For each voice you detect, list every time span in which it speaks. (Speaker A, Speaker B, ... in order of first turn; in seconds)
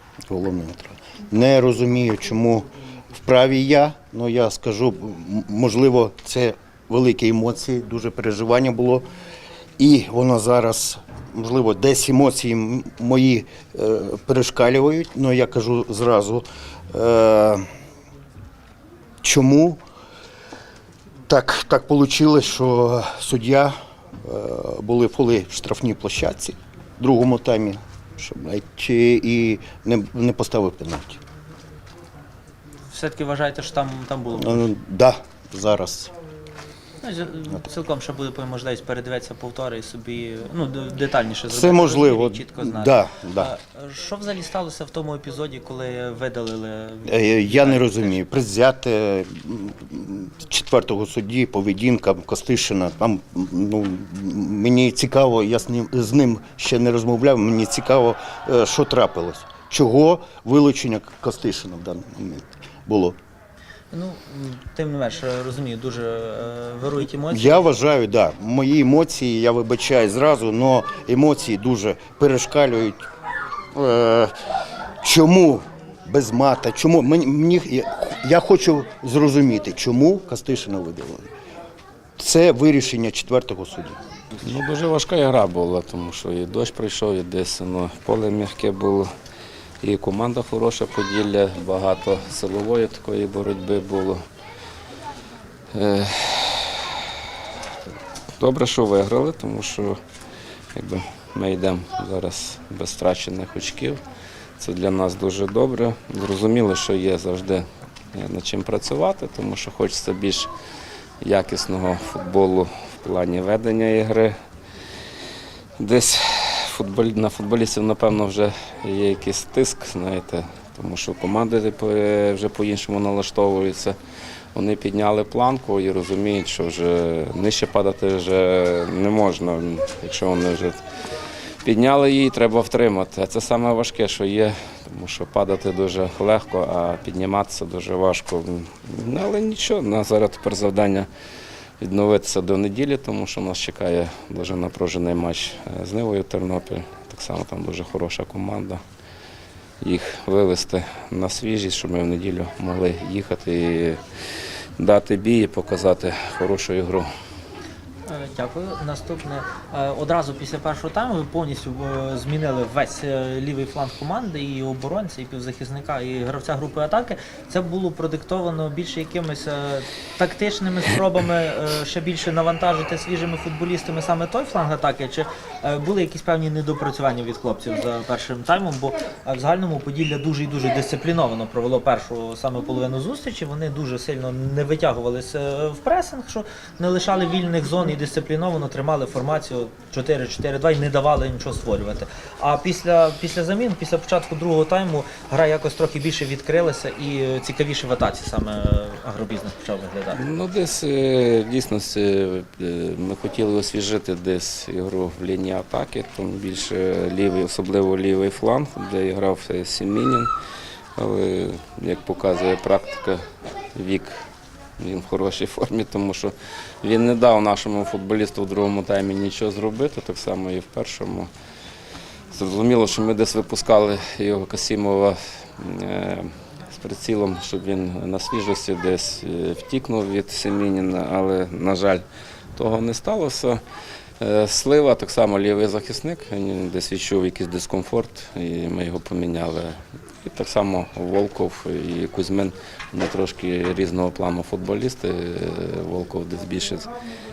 Speaker A: 0.3-9.1, 9.8-17.6, 19.2-19.8, 21.3-31.2, 34.4-36.1, 41.5-43.5, 47.0-63.2, 67.3-73.0, 73.7-74.3, 75.0-81.3, 82.2-84.0
Speaker B: 32.9-34.6, 37.0-48.1, 63.9-67.7, 158.1-200.2
Speaker C: 84.4-89.1, 89.8-94.2, 95.7-97.0, 98.4-100.0, 100.7-104.0, 104.6-110.5, 111.2-114.3, 115.8-124.0, 124.5-130.8, 131.6-141.1, 141.8-148.8, 149.8-154.0, 154.8-157.1, 200.1-210.3, 211.0-214.3, 214.8-221.3, 222.3-232.0, 232.6-233.6, 234.2-246.9